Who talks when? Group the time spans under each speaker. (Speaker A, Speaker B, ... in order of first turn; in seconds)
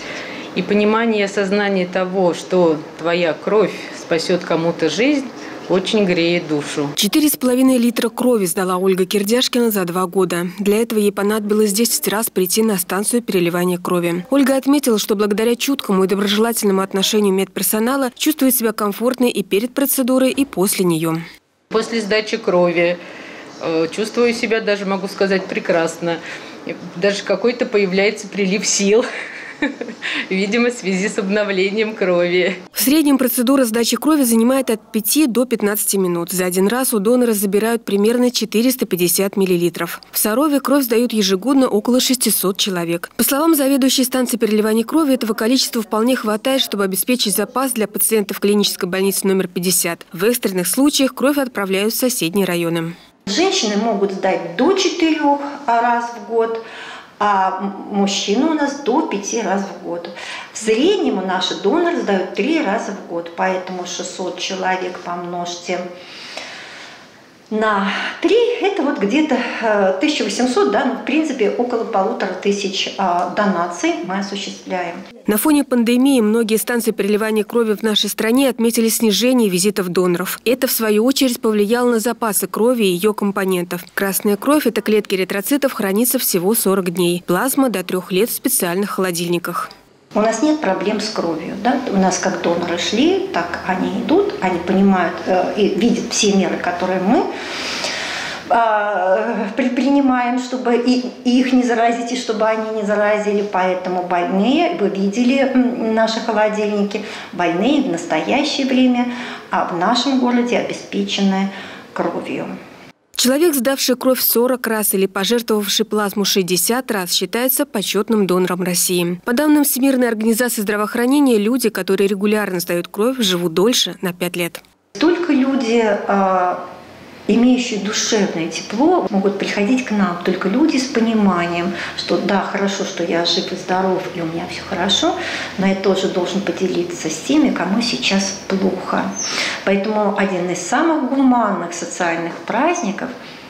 Speaker A: 0.5-6.9, 21.7-23.0, 23.6-29.1, 29.6-32.6
Speaker B: 7.0-21.2, 32.7-52.9, 75.3-89.7, 113.2-124.6
Speaker C: 53.3-56.6, 57.2-65.8, 67.5-75.0, 90.1-97.2, 98.5-112.5, 125.0-126.6, 127.3-139.1, 139.6-143.1